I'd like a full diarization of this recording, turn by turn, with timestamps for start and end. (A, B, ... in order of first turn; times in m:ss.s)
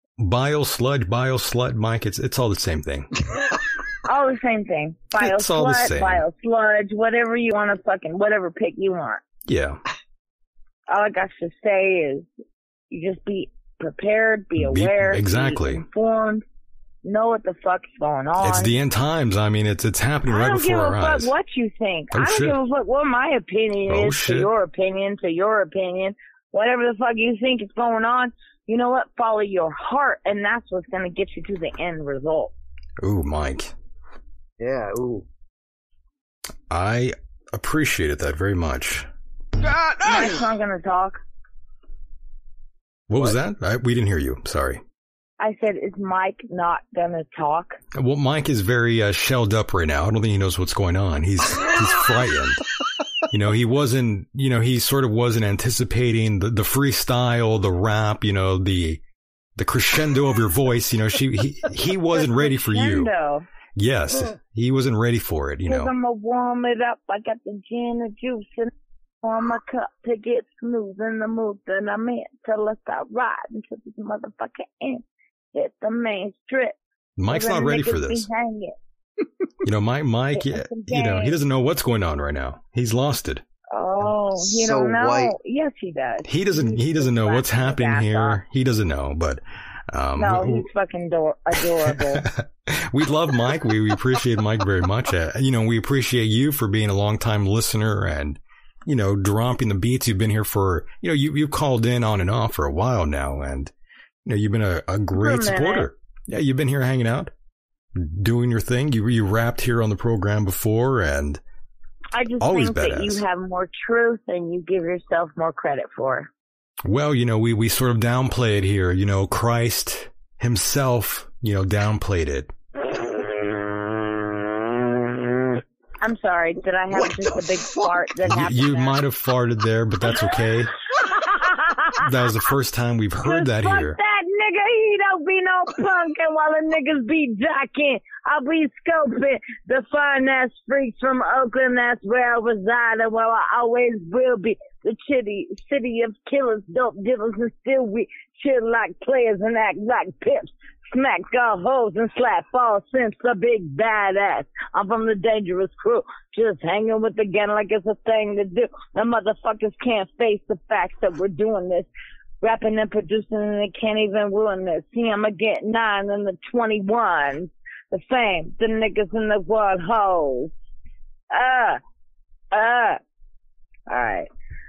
0:00.2-0:03.1 A
0:04.0-0:09.2 B
0:05.2-0:06.3 A
0:09.5-0:09.8 A
0:10.9-0:12.3 B
0:12.9-0:16.4 B
0:14.6-0:15.9 A
0:17.0-0:18.7 B
0:18.4-0:21.3 A
0:20.3-0:32.5 B
0:22.1-0:22.6 A
0:23.9-0:24.5 A
0:33.0-0:33.7 A
0:34.6-0:35.3 C
0:36.7-0:39.1 A
0:40.0-0:41.2 B
0:43.1-0:44.8 A
0:45.4-0:47.8 B
0:47.9-0:52.6 A
0:53.3-0:59.0 A
0:59.6-1:03.1 A
1:02.2-1:03.5 B
1:03.8-1:05.9 A
1:05.7-1:08.7 B
1:09.2-1:18.8 B
1:17.2-1:18.3 A
1:19.6-1:23.4 A
1:20.3-1:21.4 B
1:23.7-1:28.4 B
1:24.4-1:25.4 C
1:26.2-1:30.7 A
1:30.2-1:32.3 B
1:31.6-1:43.7 A
1:44.2-1:47.3 A
1:45.1-1:45.9 B
1:48.0-1:51.4 A
1:52.1-1:56.3 B
1:52.4-1:53.2 A
1:56.8-2:02.5 A
2:02.9-2:03.8 B
2:06.0-2:09.0 B
2:06.9-2:08.1 C
2:08.2-2:10.8 A
2:11.0-2:12.1 B
2:12.0-2:14.0 A
2:13.2-2:41.9 B
2:42.4-2:50.5 B
2:51.3-2:51.8 B
2:52.5-2:53.0 B
2:53.9-2:54.3 B